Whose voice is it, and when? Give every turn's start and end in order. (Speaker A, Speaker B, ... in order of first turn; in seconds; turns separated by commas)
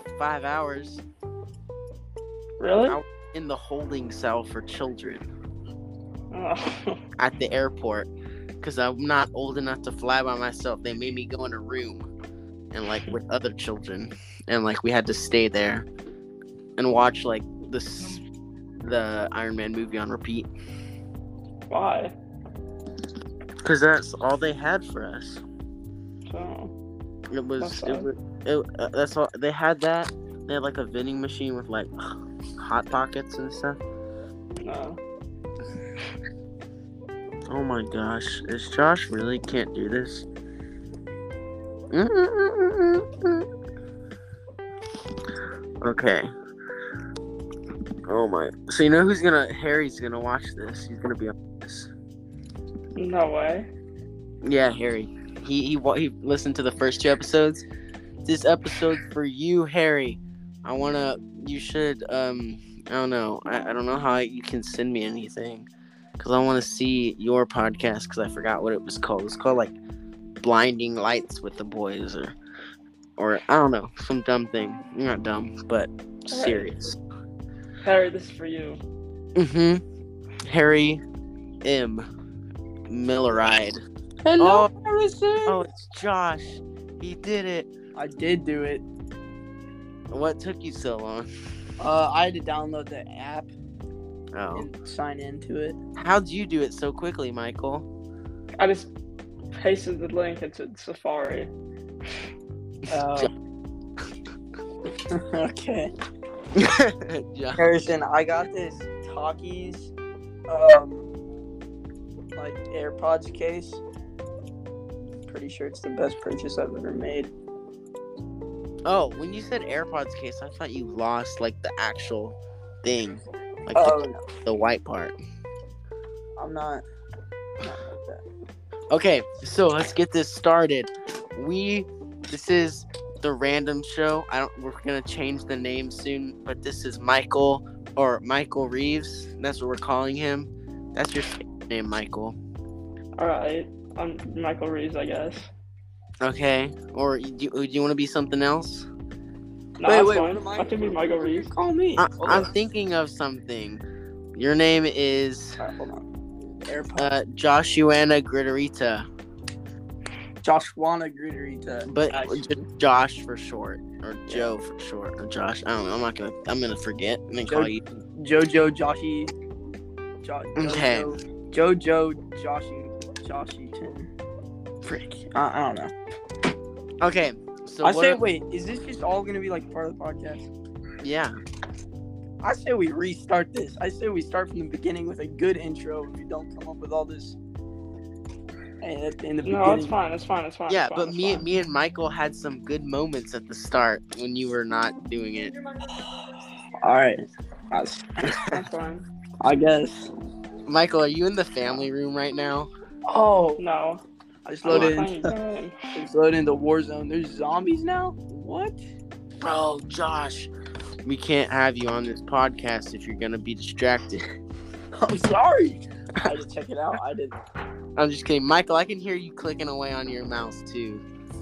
Speaker A: 0.2-1.0, Speaker B: 2.6-3.0, Speaker A: 2.9-5.3, Speaker B: 6.3-7.0, Speaker A: 7.2-8.1, Speaker A: 8.6-12.1, Speaker A: 12.7-15.9, Speaker A: 16.8-18.2, Speaker A: 18.8-20.5, Speaker B: 21.7-22.1, Speaker A: 23.6-25.4, Speaker B: 26.3-26.7, Speaker A: 27.3-31.9, Speaker B: 27.6-28.1, Speaker A: 32.6-33.8, Speaker B: 34.6-35.0, Speaker A: 37.5-40.3, Speaker A: 41.9-43.5, Speaker A: 45.8-46.3, Speaker A: 48.1-51.9, Speaker B: 53.0-53.7, Speaker A: 54.4-57.6, Speaker A: 58.2-65.7, Speaker A: 66.2-69.8, Speaker A: 70.4-72.4, Speaker A: 73.2-77.0, Speaker B: 76.3-76.7, Speaker B: 77.8-78.8, Speaker A: 79.4-79.8, Speaker A: 80.4-81.0, Speaker A: 81.6-82.0, Speaker A: 82.9-83.8, Speaker C: 84.2-85.6, Speaker A: 84.4-84.7, Speaker A: 85.5-87.7, Speaker C: 88.0-88.8, Speaker A: 90.1-91.3, Speaker C: 91.8-93.5, Speaker A: 94.3-94.7, Speaker C: 94.5-95.8, Speaker A: 96.0-97.9, Speaker B: 98.6-98.9, Speaker B: 99.6-101.5, Speaker C: 102.9-103.3, Speaker C: 105.1-105.9, Speaker A: 106.5-107.6, Speaker C: 107.6-109.9, Speaker C: 110.5-111.1, Speaker C: 112.3-113.8, Speaker C: 115.3-117.3, Speaker A: 118.9-125.2, Speaker C: 123.7-124.2, Speaker C: 126.4-126.8, Speaker C: 127.6-128.2, Speaker A: 128.9-142.4, Speaker B: 143.2-145.5, Speaker A: 146.2-148.9, Speaker B: 149.8-151.5, Speaker C: 149.8-152.5, Speaker A: 152.0-153.8, Speaker A: 154.3-155.6, Speaker C: 155.6-157.1, Speaker A: 157.0-159.1, Speaker C: 160.4-162.6, Speaker A: 161.9-167.8, Speaker C: 164.3-164.5, Speaker C: 167.5-169.3, Speaker C: 170.2-174.1, Speaker A: 170.6-171.1, Speaker C: 174.8-175.9, Speaker A: 177.0-178.2, Speaker C: 177.8-180.5, Speaker A: 181.0-181.4, Speaker C: 182.4-187.4, Speaker C: 188.8-189.9, Speaker B: 189.4-191.5, Speaker A: 190.7-195.5, Speaker C: 195.8-198.4, Speaker B: 198.4-199.1, Speaker C: 199.4-200.1, Speaker A: 200.7-202.7, Speaker C: 203.1-203.6, Speaker B: 203.6-204.0, Speaker C: 204.5-205.3, Speaker B: 204.7-205.8, Speaker A: 204.7-205.0, Speaker C: 205.9-208.8, Speaker A: 209.4-210.5, Speaker A: 211.1-214.2, Speaker C: 215.0-217.4, Speaker A: 218.0-221.0